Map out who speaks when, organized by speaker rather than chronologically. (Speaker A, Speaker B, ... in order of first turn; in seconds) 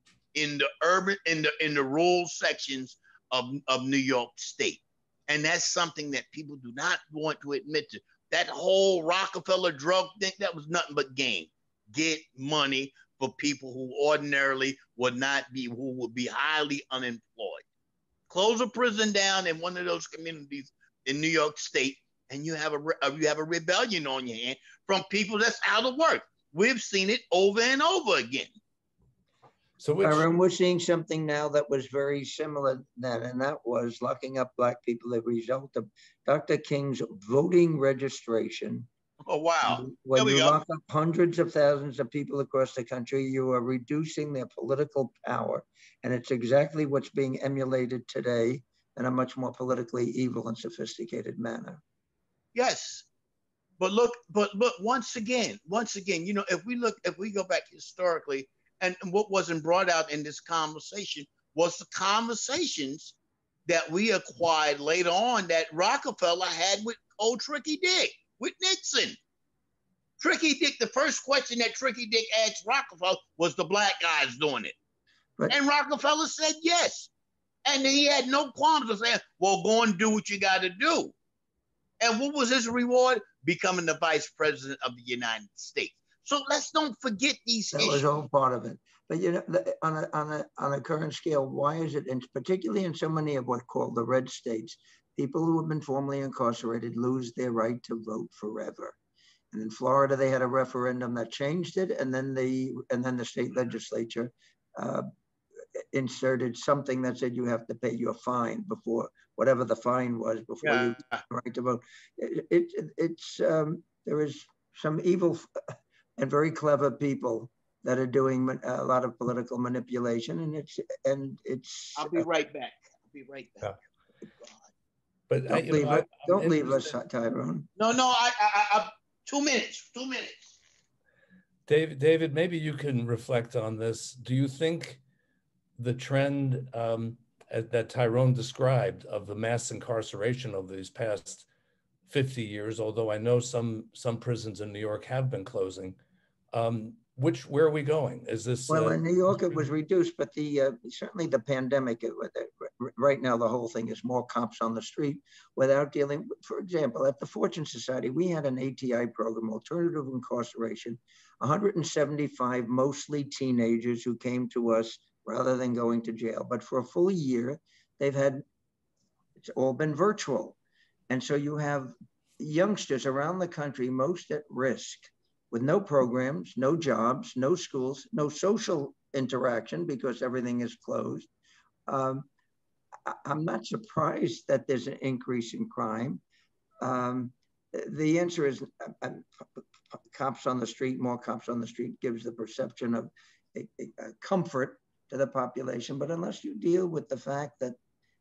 Speaker A: 0.3-17.6, 18.3-28.5, 39.2-40.6, 52.5-53.1, 53.8-63.1, 63.7-69.2, 70.2-74.8, 75.5-77.1, 77.7-81.1, 82.0-88.1, 110.6-111.2, 122.0-123.8, 127.8-130.5
Speaker B: 29.8-30.3, 125.3-126.9, 131.7-135.0, 135.8-141.5, 142.1-146.0, 146.5-149.0
Speaker C: 30.0-38.9, 39.6-51.8, 87.7-99.0, 99.5-105.1, 105.9-115.5, 116.2-122.3, 125.5-127.7, 148.7-168.4, 169.4-170.6, 171.1-181.3, 181.9-182.3, 183.1-186.2, 186.8-197.8